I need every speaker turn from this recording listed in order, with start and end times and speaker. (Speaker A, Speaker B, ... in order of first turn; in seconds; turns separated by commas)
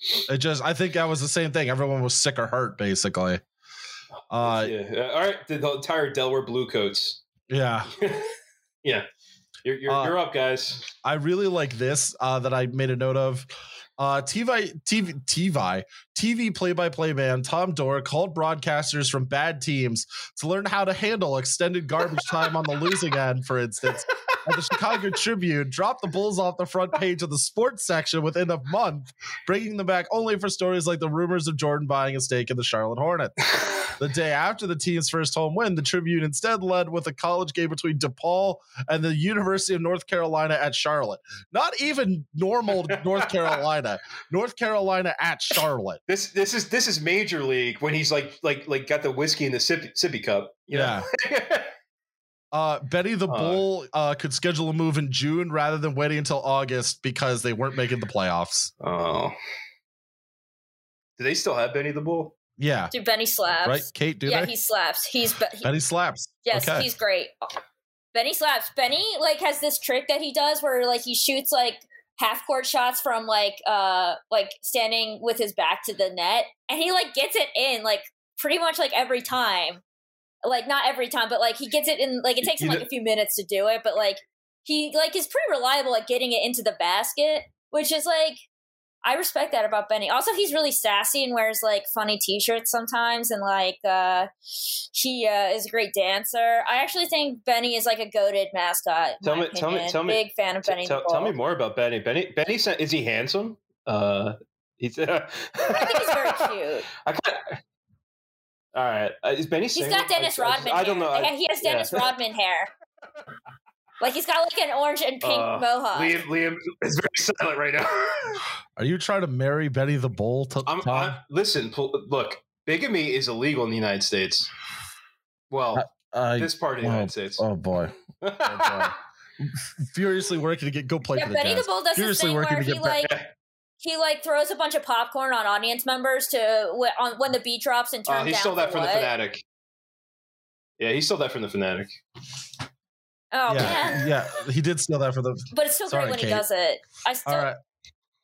Speaker A: 0.3-3.4, Speaker A: 4.3-4.7, Speaker B: 4.4-7.2, Speaker A: 7.5-7.9, Speaker B: 8.0-8.3, Speaker B: 9.6-10.9, Speaker A: 9.9-10.2, Speaker A: 11.0-13.5, Speaker A: 14.0-46.0, Speaker B: 46.1-51.7, Speaker A: 50.7-51.1, Speaker A: 52.5-58.7, Speaker B: 53.3-53.6, Speaker B: 58.8-59.4, Speaker B: 61.2-62.3, Speaker A: 62.6-62.9, Speaker C: 62.9-65.7, Speaker A: 63.6-64.5, Speaker A: 65.6-66.9, Speaker C: 66.4-67.3, Speaker C: 68.1-79.8, Speaker C: 80.4-88.4, Speaker B: 82.4-82.8, Speaker C: 89.0-101.4, Speaker B: 99.2-106.4, Speaker C: 105.7-106.9, Speaker B: 107.0-107.6, Speaker B: 108.7-112.1, Speaker C: 109.7-112.7, Speaker C: 114.0-116.2, Speaker B: 115.2-118.4, Speaker A: 118.8-121.2, Speaker B: 120.7-124.5, Speaker B: 125.5-127.4, Speaker A: 125.7-133.1, Speaker B: 128.2-128.9, Speaker C: 131.1-133.1, Speaker C: 133.8-139.1, Speaker B: 138.1-139.4, Speaker B: 140.8-141.9, Speaker C: 143.3-144.1, Speaker A: 143.5-146.4, Speaker C: 145.5-147.5, Speaker A: 147.2-147.5